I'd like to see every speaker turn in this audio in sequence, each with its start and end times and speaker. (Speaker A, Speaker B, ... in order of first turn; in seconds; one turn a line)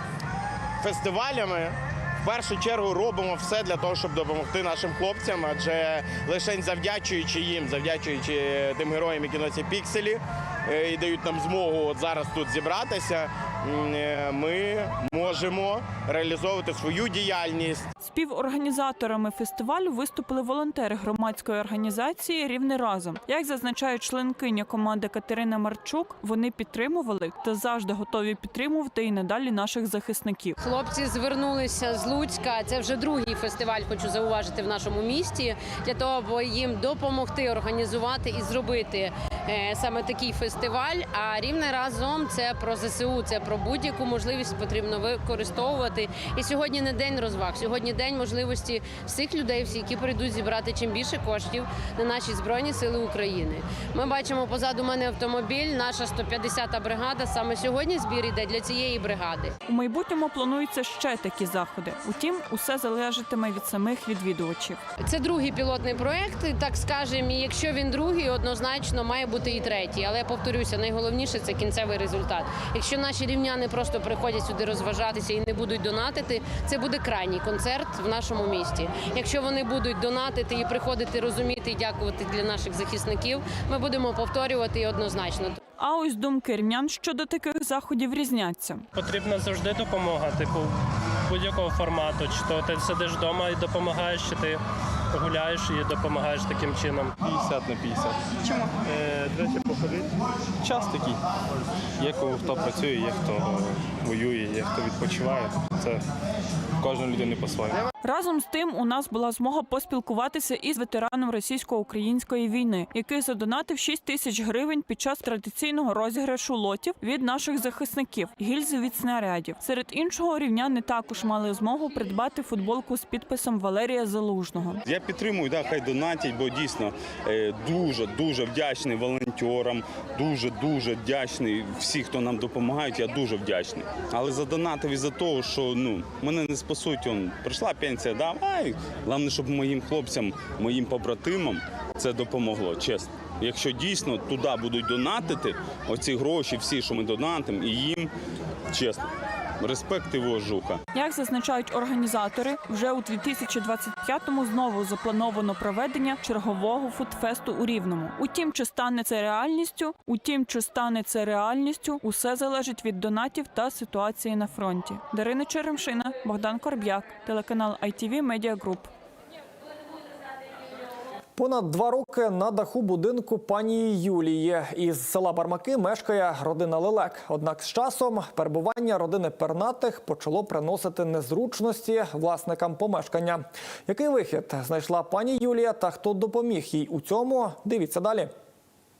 Speaker A: 0.8-17.8
Speaker B: 18.0-30.5
Speaker C: 30.6-59.5
Speaker B: 59.6-64.8
Speaker C: 65.0-85.6
Speaker B: 85.8-88.8
Speaker D: 88.9-90.8
Speaker D: 91.3-97.1
Speaker E: 102.0-103.4
Speaker E: 104.1-105.9
Speaker E: 107.0-107.7
Speaker B: 108.0-124.8
Speaker F: 124.8-148.1
Speaker F: 148.7-149.1
Speaker F: 149.6-150.8
Speaker B: 150.9-168.9
Speaker G: 171.4-188.3